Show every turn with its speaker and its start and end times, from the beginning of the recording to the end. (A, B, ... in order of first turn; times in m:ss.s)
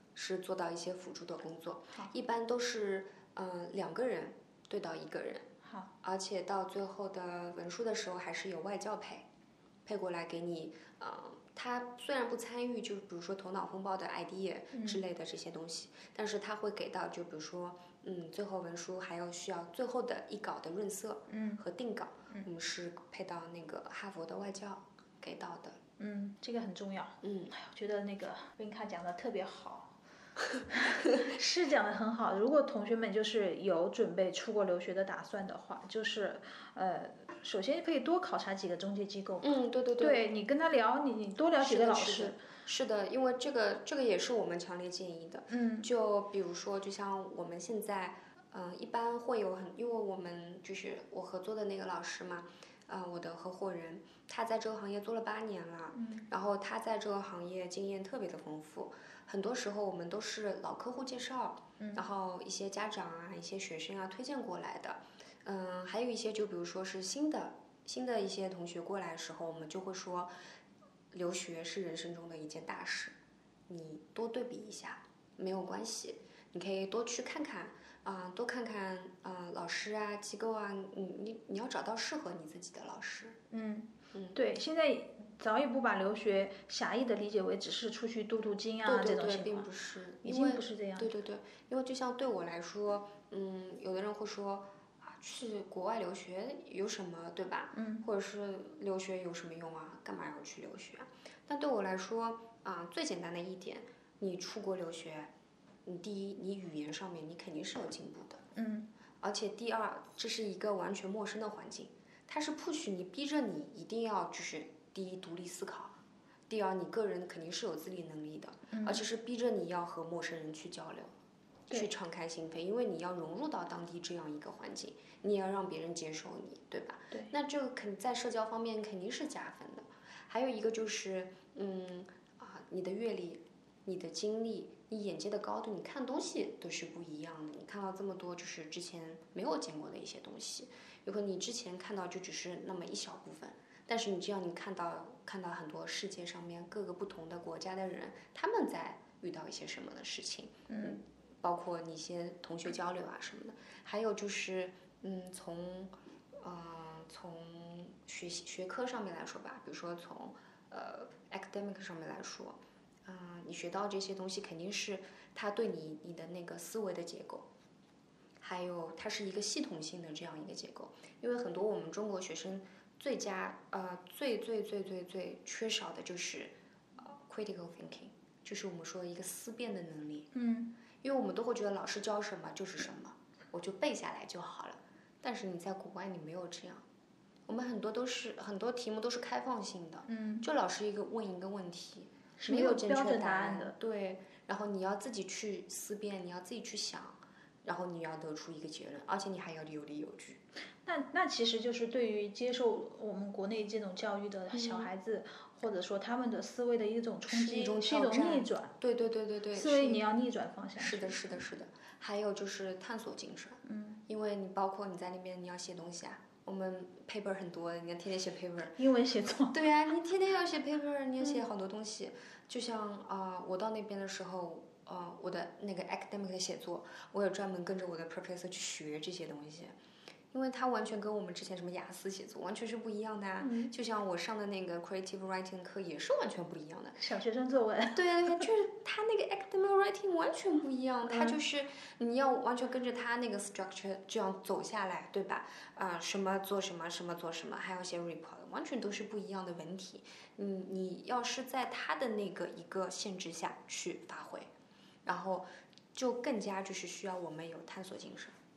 0:00.2-0:05.5 A
0:05.6-0:05.9 B
0:06.0-0:09.2 A
0:09.8-0:25.8 A
0:14.7-0:15.0 B
0:21.3-0:21.6 B
0:26.0-0:30.0 B
0:27.2-0:27.5 A
0:30.7-0:42.4 B
0:39.4-0:40.2 A
0:41.6-1:10.3 A
0:45.5-0:45.9 B
0:55.9-0:56.3 B
1:01.8-1:02.0 B
1:11.1-1:13.1 A
1:13.7-1:23.4 A
1:23.5-1:29.7 B
1:24.1-1:24.4 A
1:28.8-1:45.3 A
1:30.2-1:31.1 B
1:37.7-1:38.0 B
1:45.8-1:48.4 A
1:48.5-1:48.9 B
1:49.2-1:55.9 A
1:56.5-2:01.1 A
1:58.7-1:59.0 B
2:01.7-2:47.5 A
2:30.7-2:31.0 B
2:48.4-3:00.3 A
3:00.3-3:00.7 B
3:01.0-3:06.8 A
3:07.5-3:20.4 A
3:10.1-3:10.4 B
3:12.4-3:13.7 B
3:20.8-3:28.7 B
3:24.5-3:24.9 A
3:27.3-3:30.1 A
3:29.5-3:31.2 B
3:30.8-3:38.8 A
3:33.6-3:34.0 B
3:38.8-3:39.6 B
3:39.5-3:49.7 A
3:50.3-3:57.0 A
3:53.4-3:53.7 B
3:57.0-3:58.5 B
3:57.9-4:14.5 A
4:01.1-4:01.4 B
4:15.0-4:18.3 A